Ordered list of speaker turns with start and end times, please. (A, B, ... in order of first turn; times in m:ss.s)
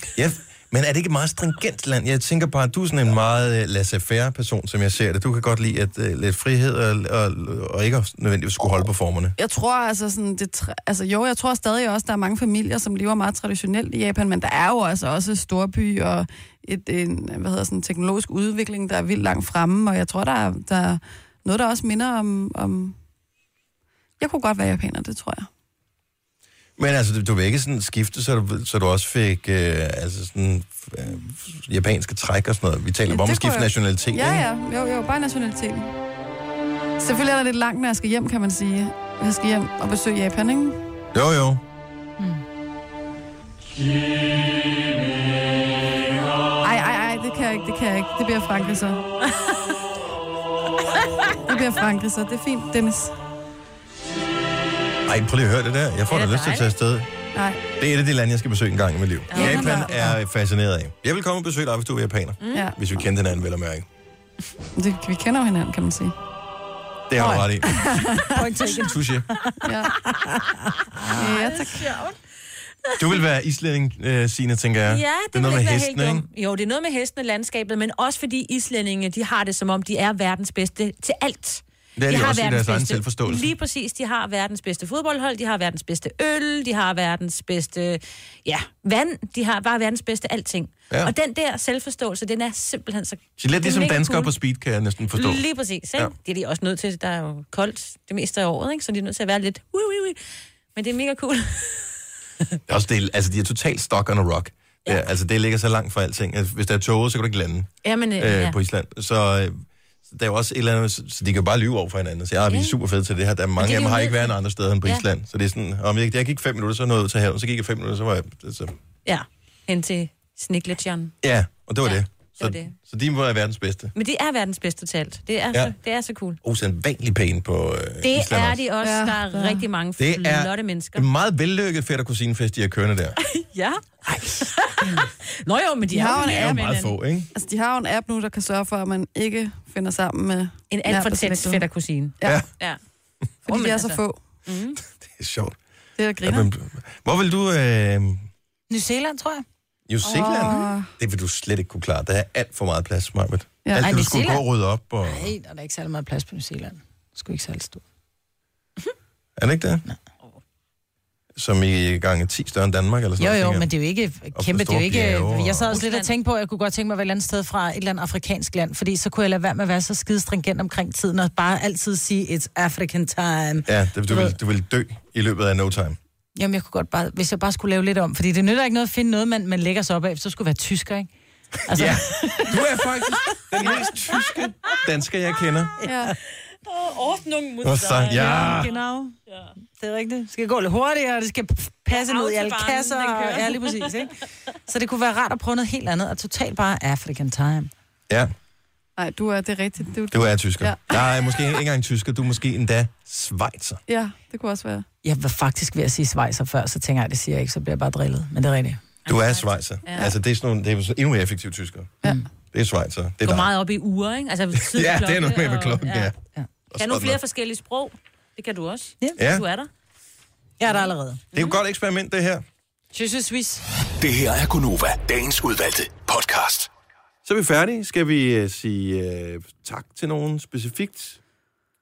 0:00.1-0:09.4 A
0:09.4-0:23.0 B
0:24.2-0:25.5 B
0:26.8-0:34.5 A
0:33.1-0:35.9 B
0:37.0-0:40.8 B
0:41.1-0:41.6 A
0:42.2-0:42.4 C
0:46.6-0:49.0 B
0:51.5-0:53.1 B
0:55.1-0:57.1 A
0:56.1-0:56.7 D
0:57.4-0:57.6 B
0:57.8-1:03.9 A
0:59.3-0:59.9 D
0:59.4-1:00.0 B
0:59.8-1:00.1 C
1:02.4-1:02.7 D
1:02.5-1:02.8 B
1:04.8-1:06.2 B
1:07.1-1:09.3 A
1:07.2-1:11.2 C
1:09.6-1:09.9 B
1:11.0-1:12.2 D
1:11.2-1:11.9 B
1:12.8-1:13.2 D
1:13.0-1:16.2 A
1:14.9-1:34.3 D
1:22.0-1:23.5 A
1:33.4-1:35.4 A
1:35.1-1:40.2 D
1:40.8-1:42.6 D
1:42.7-1:58.7 A
1:47.8-1:48.6 D
1:52.5-1:52.8 D
1:53.6-1:55.0 D
1:59.1-2:01.1 D
2:01.2-2:03.9 A
2:01.8-2:02.7 D
2:04.0-2:06.4 D
2:06.4-2:08.7 A
2:08.0-2:11.1 D
2:08.8-2:09.6 B
2:10.0-2:13.2 A
2:13.3-2:16.9 D
2:14.1-2:14.5 C
2:15.9-2:21.7 B
2:16.2-2:17.3 A
2:20.7-2:22.8 D
2:22.2-2:22.5 A
2:23.5-2:24.2 B
2:23.5-2:24.8 D
2:25.0-2:25.6 A
2:26.0-2:26.5 B
2:26.2-2:28.3 A
2:28.7-2:29.4 C
2:29.9-2:35.3 A
2:30.0-2:30.9 B
2:33.8-2:34.4 C
2:35.0-2:37.8 C
2:39.4-2:39.8 A
2:41.4-2:43.7 A
2:43.2-2:54.4 C
2:44.3-2:45.8 A
2:45.7-2:46.1 D
2:53.7-2:56.0 A
2:56.4-3:01.1 C
3:01.7-3:02.6 C
3:01.7-3:05.7 A
3:05.8-3:06.1 B
3:06.6-3:08.7 D
3:07.6-3:08.7 A
3:08.1-3:09.1 C
3:09.8-3:17.7 C
3:11.9-3:13.9 D
3:19.0-3:21.0 B
3:20.1-3:23.8 A
3:23.9-3:24.8 B
3:25.0-3:28.8 C
3:29.0-3:30.1 D
3:29.1-3:31.9 A
3:32.5-3:33.5 A
3:33.2-3:36.1 D
3:34.5-3:36.2 A
3:36.7-3:37.2 A
3:36.8-3:39.7 D
3:39.2-3:39.4 A
3:40.6-3:41.2 C
3:41.3-3:42.4 A
3:42.9-3:43.6 C
3:44.0-3:46.7 E
3:47.2-3:51.2 A